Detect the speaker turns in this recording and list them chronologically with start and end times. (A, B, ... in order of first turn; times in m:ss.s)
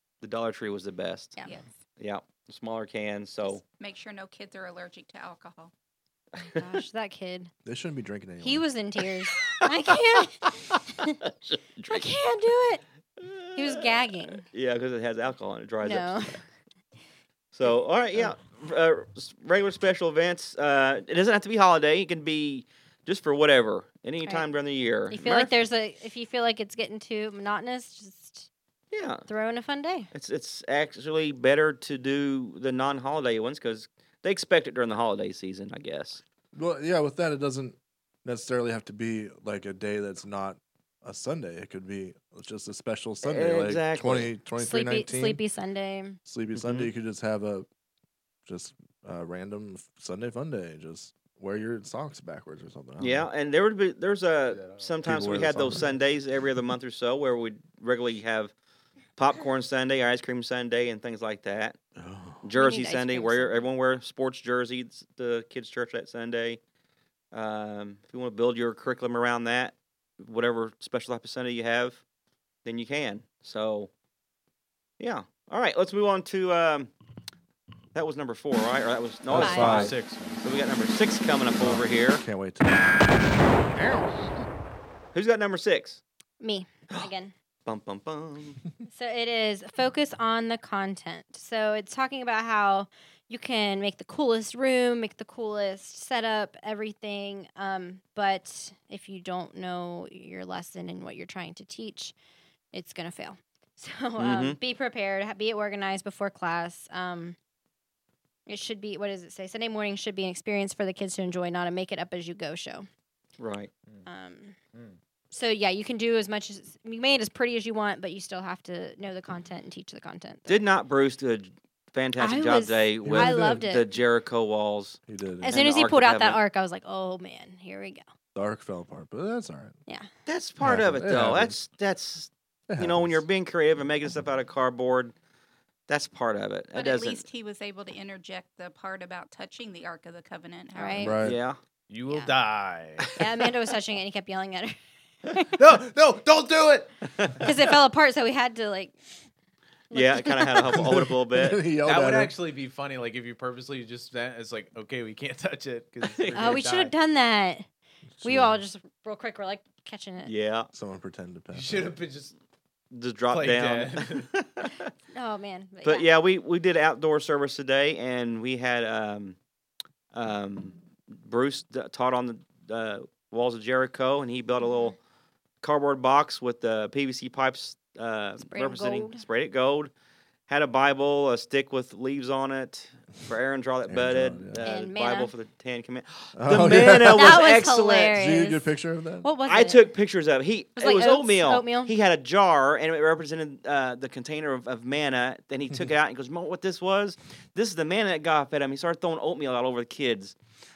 0:00.2-0:01.4 A
0:01.4-0:01.8 B
0:02.0-0:03.6 A
0:03.7-0:05.7 B
0:06.4-0:06.6 A
0:06.4-0:07.5 C
0:07.6-0:08.6 D
0:08.4-0:11.2 C
0:10.4-0:12.1 A
0:11.9-0:12.8 C
0:13.2-0:16.4 A
0:13.6-0:14.4 C
0:15.8-0:16.4 C
0:17.5-0:25.5 A
0:25.1-0:28.5 C
0:28.9-0:29.3 A
0:29.3-0:30.1 C
0:30.1-0:36.2 A
0:36.5-0:45.4 D
0:43.2-0:44.3 A
0:44.6-0:46.2 C
0:46.2-0:47.7 D
0:46.6-0:46.9 A
0:48.4-0:53.3 D
0:53.0-0:58.5 A
0:54.5-0:54.9 E
0:55.0-0:55.9 D
0:59.2-1:01.8 A
1:02.0-1:02.4 D
1:02.4-1:06.6 A
1:02.6-1:03.6 C
1:07.3-1:12.0 A
1:12.6-1:13.9 A
1:15.0-1:16.9 A
1:17.9-1:22.2 A
1:19.3-1:20.0 D
1:19.3-1:20.4 E
1:19.4-1:19.7 C
1:21.6-1:24.3 D
1:25.1-1:26.0 A
1:26.4-1:27.3 C
1:27.6-1:28.6 A
1:28.9-1:42.1 C
1:42.7-1:47.4 C
1:44.2-1:44.6 A
1:48.5-1:52.9 C
1:53.4-1:53.7 A
1:54.1-1:54.6 C
1:55.3-2:00.6 C
2:00.5-2:06.4 A
2:02.2-2:03.9 C
2:03.0-2:03.7 D
2:05.1-2:05.6 D
2:05.4-2:08.0 C
2:08.4-2:09.7 D
2:10.3-2:15.1 A
2:10.6-2:11.6 D
2:12.7-2:13.2 D
2:15.9-2:17.2 A
2:16.7-2:21.3 B
2:20.7-2:21.2 C
2:21.0-2:21.4 D
2:21.2-2:21.6 A
2:21.9-2:23.1 E
2:22.1-2:22.4 C
2:23.2-2:24.7 C
2:25.6-2:26.9 E
2:27.2-2:27.5 A
2:27.4-2:28.9 C
2:29.9-2:30.6 C
2:29.9-2:31.6 A
2:30.7-2:32.3 D
2:31.8-2:36.9 E
2:36.1-2:36.6 A
2:36.4-2:37.6 C
2:38.2-2:38.6 D
2:38.2-2:40.3 C
2:40.3-2:40.7 A
2:40.7-2:41.9 D
2:41.5-2:42.4 E
2:42.9-2:44.9 A
2:43.3-2:44.3 E
2:45.1-2:46.1 C
2:45.8-2:49.4 A
2:50.1-2:55.0 A
2:55.6-2:59.9 A
2:58.4-2:59.2 C
3:00.5-3:08.1 A
3:03.9-3:04.6 D
3:04.6-3:05.3 C
3:06.4-3:07.5 D
3:07.1-3:08.6 C
3:08.1-3:09.3 D
3:09.2-3:09.9 C
3:09.4-3:20.4 A
3:10.8-3:11.9 C